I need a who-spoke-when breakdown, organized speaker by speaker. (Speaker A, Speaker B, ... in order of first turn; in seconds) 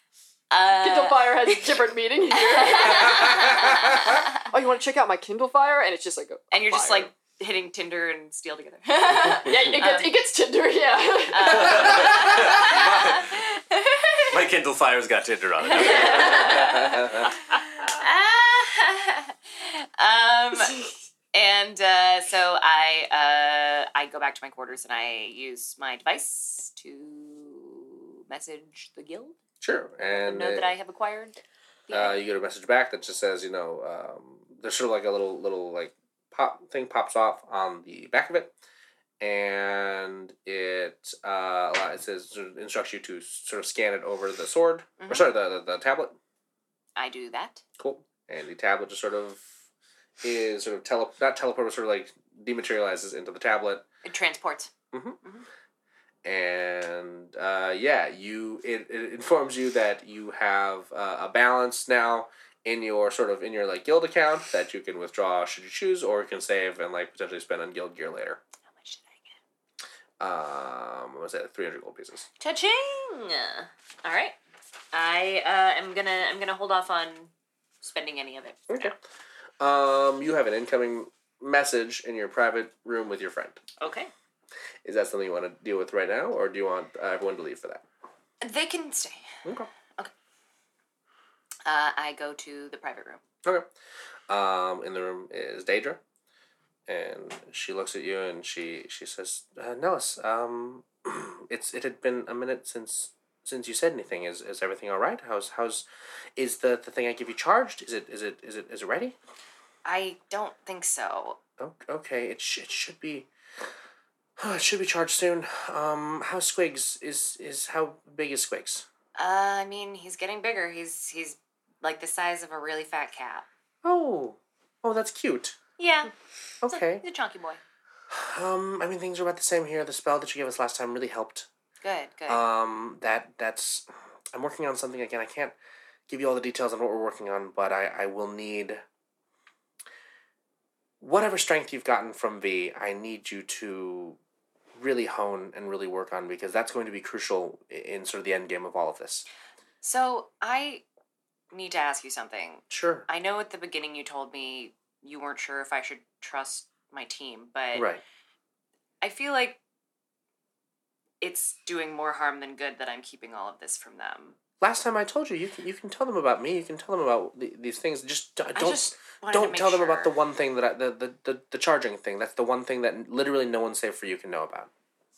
Speaker A: 0.5-1.8, 2.3-4.3, 6.5-10.1, 11.3-14.3, 15.6-29.4, 30.1-31.4, 31.9-32.2, 45.0-45.3, 47.0-47.6, 54.0-54.7, 68.7-69.3, 72.4-74.3, 74.9-77.3, 77.8-78.9, 83.8-84.1, 88.4-89.3, 91.7-93.2, 109.8-111.4, 119.2-123.5, 125.8-126.1, 126.6-127.6, 131.8-132.4, 149.8-150.8, 151.5-157.9, 159.0-159.6, 161.2-164.3, 168.5-170.2
Speaker B: 0.8-3.6, 4.5-7.1, 9.2-12.1
Speaker C: 3.0-3.8, 11.8-13.2, 15.9-17.3, 29.6-30.7, 31.9-38.5, 39.2-46.1, 47.8-49.5, 50.2-53.9, 54.9-55.2, 56.2-68.4, 70.2-72.3, 78.7-79.0, 79.6-83.6, 84.8-87.8, 89.4-89.7, 94.3-96.0, 96.9-109.2, 111.6-113.3, 114.4-118.8, 123.8-125.6, 126.6-127.0, 128.1-131.5, 132.3-135.5, 136.1-138.8, 141.0-144.2, 144.8-149.2, 152.7-153.1, 157.7-158.0, 164.6-174.7
Speaker D: 11.7-13.2, 14.3-16.9